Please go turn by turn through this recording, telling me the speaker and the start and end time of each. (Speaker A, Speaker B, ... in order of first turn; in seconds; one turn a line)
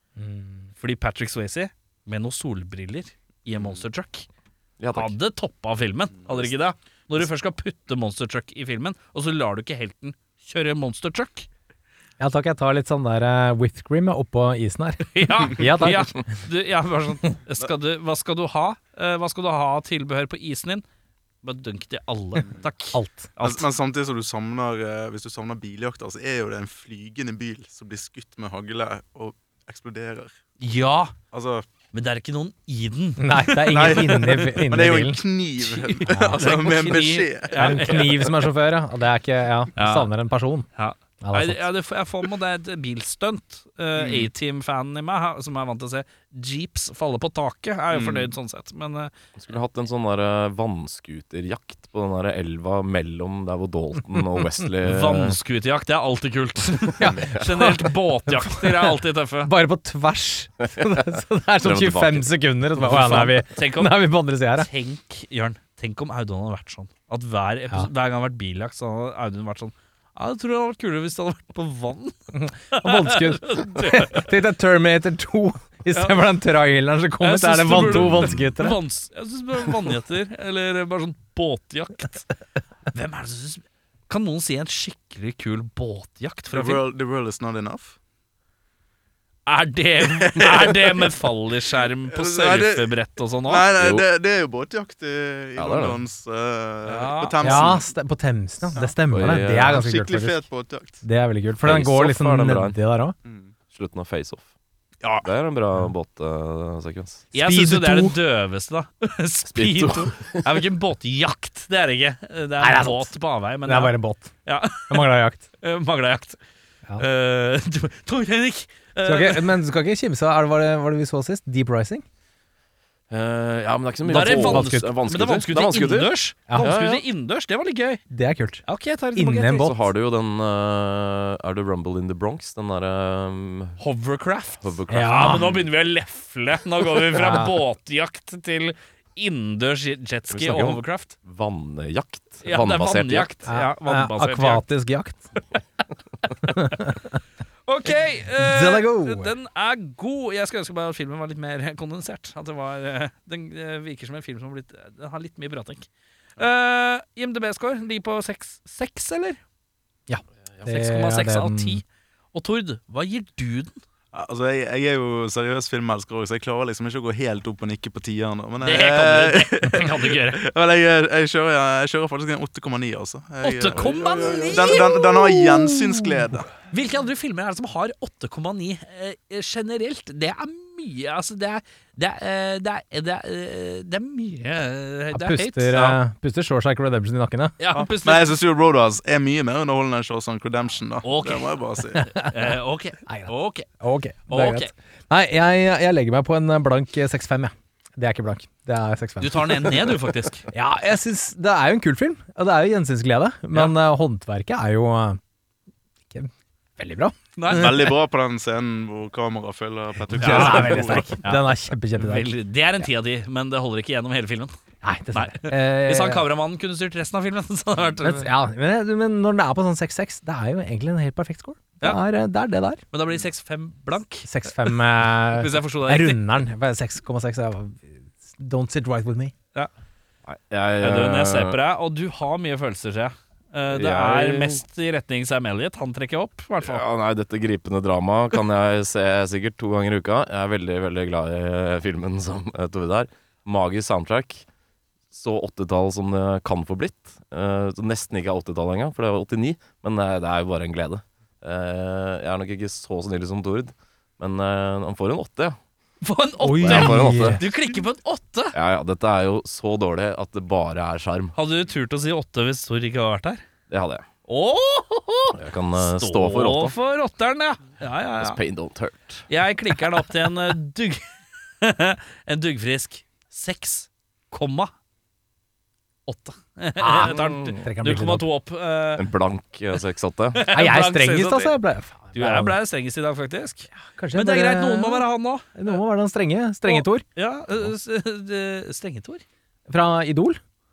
Speaker A: 0.2-0.7
Speaker B: 0.8-4.3
Speaker C: 4.8-5.1
Speaker B: 4.9-11.5
Speaker A: 12.2-16.2
Speaker B: 15.0-20.8
Speaker B: 21.4-23.6
Speaker D: 22.4-22.7
Speaker A: 22.9-23.3
Speaker D: 23.4-30.3
Speaker B: 30.6-31.1
Speaker D: 31.3-31.6
Speaker B: 31.9-34.1
Speaker A: 33.2-35.2
Speaker D: 33.7-38.0
Speaker B: 35.6-38.4
Speaker A: 36.1-36.4
Speaker A: 37.5-40.7
Speaker B: 39.8-40.1
Speaker B: 40.7-49.1
Speaker A: 41.2-41.6
Speaker D: 44.0-44.3
Speaker D: 47.9-48.3
Speaker C: 49.4-55.4
Speaker B: 54.8-59.5
Speaker A: 57.0-64.7
Speaker C: 57.0-57.4
Speaker C: 61.6-62.3
Speaker C: 62.8-63.3
Speaker B: 62.9-64.0
Speaker B: 64.5-72.2
Speaker A: 72.3-78.8
Speaker B: 72.7-74.3
Speaker B: 75.9-76.2
Speaker B: 77.2-82.2
Speaker C: 77.9-78.3
Speaker B: 82.9-86.8
Speaker D: 86.5-88.0
Speaker B: 89.5-93.7
Speaker D: 90.0-91.3
Speaker D: 92.1-92.9
Speaker D: 93.4-97.9
Speaker C: 93.8-94.0
Speaker C: 95.6-96.0
Speaker B: 96.8-97.7
Speaker A: 97.4-100.4
Speaker D: 98.7-101.0
Speaker C: 99.1-99.8
Speaker A: 101.0-103.2
Speaker C: 101.6-102.8
Speaker D: 103.2-103.5
Speaker C: 103.7-104.5
Speaker C: 105.2-107.2
Speaker A: 107.3-108.2
Speaker B: 107.3-116.4
Speaker C: 109.5-110.6
Speaker A: 112.6-113.1
Speaker A: 113.6-114.3
Speaker A: 114.9-115.5
Speaker B: 117.0-119.6
Speaker A: 119.0-122.0
Speaker C: 123.1-127.0
Speaker B: 124.0-128.0
Speaker A: 124.3-124.9
Speaker A: 128.1-128.6
Speaker B: 128.6-129.7
Speaker A: 129.1-129.8
Speaker C: 129.5-133.8
Speaker B: 133.8-141.1
Speaker C: 134.6-135.6
Speaker A: 134.9-135.5
Speaker A: 137.1-137.6
Speaker C: 140.3-143.3
Speaker B: 142.4-144.6
Speaker A: 143.5-145.3
Speaker A: 146.4-147.2
Speaker B: 147.7-159.4
Speaker A: 148.3-149.3
Speaker A: 160.1-161.8
Speaker B: 160.6-163.8
Speaker D: 164.1-176.5
Speaker B: 168.6-170.4
Speaker B: 173.4-174.9
Speaker A: 174.3-176.3
Speaker B: 176.7-186.0
Speaker A: 185.1-187.6
Speaker B: 187.6-188.4
Speaker D: 187.7-192.1
Speaker B: 191.0-191.6
Speaker A: 191.9-192.3
Speaker B: 192.1-193.7
Speaker A: 193.1-199.7
Speaker B: 194.3-194.7
Speaker B: 199.2-200.5
Speaker A: 200.5-205.2
Speaker A: 206.1-207.9
Speaker B: 207.4-207.9
Speaker D: 207.5-211.2
Speaker A: 210.0-212.3
Speaker B: 210.1-214.5
Speaker A: 214.8-216.2
Speaker B: 215.1-218.3
Speaker A: 218.0-222.8
Speaker B: 222.9-224.8
Speaker A: 224.2-229.3
Speaker B: 225.3-226.2
Speaker C: 230.2-231.6
Speaker B: 230.8-236.8
Speaker C: 233.7-234.6
Speaker C: 236.6-244.4
Speaker C: 245.1-255.6
Speaker B: 256.0-258.5
Speaker A: 256.4-257.4
Speaker C: 256.6-257.4
Speaker C: 258.5-261.3
Speaker B: 261.3-263.4
Speaker C: 263.7-264.1
Speaker B: 264.3-268.4
Speaker C: 265.3-266.7
Speaker C: 268.2-269.3
Speaker B: 269.3-271.1
Speaker B: 271.6-274.7
Speaker B: 276.1-279.1
Speaker A: 276.8-278.3
Speaker C: 278.9-280.4
Speaker B: 280.3-281.6
Speaker A: 280.5-282.6
Speaker B: 282.1-285.7
Speaker A: 283.8-287.0
Speaker B: 286.6-289.2
Speaker A: 289.7-290.4